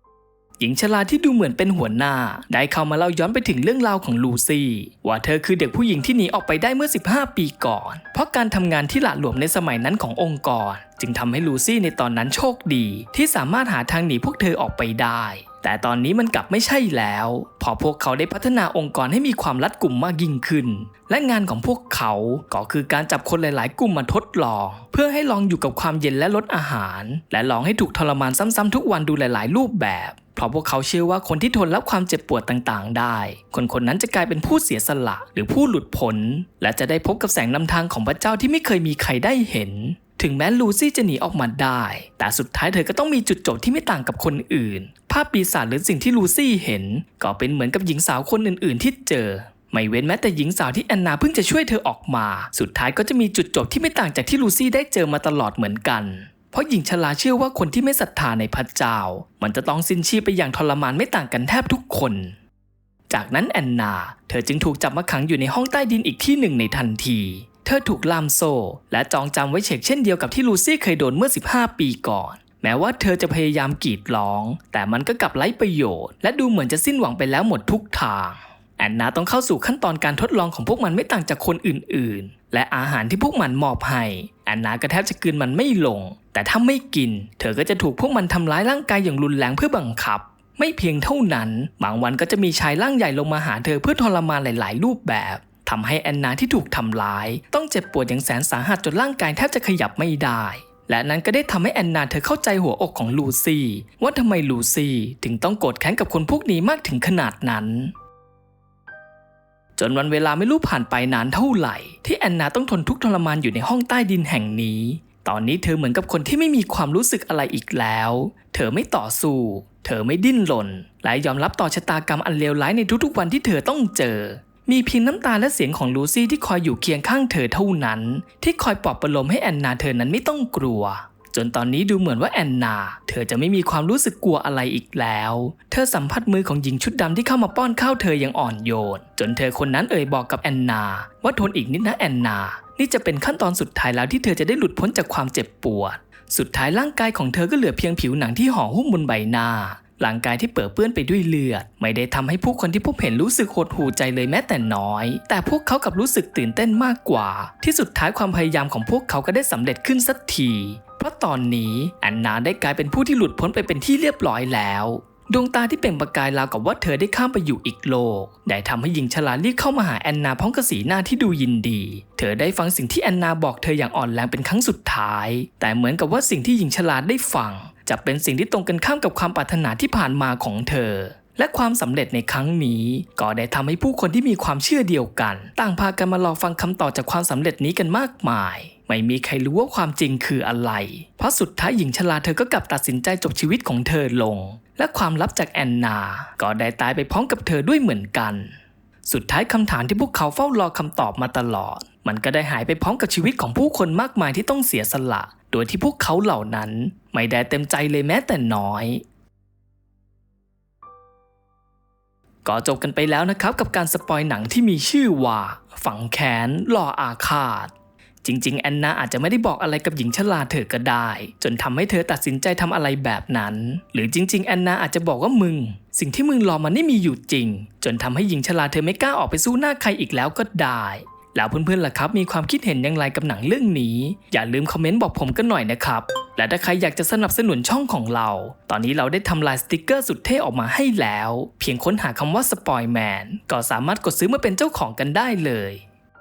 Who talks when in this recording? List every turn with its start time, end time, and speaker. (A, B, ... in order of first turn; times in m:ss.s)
0:00.6-1:02.4 A
1:03.1-1:47.9 A
1:49.8-3:29.0 A
3:32.4-3:37.7 A
3:38.2-4:05.8 A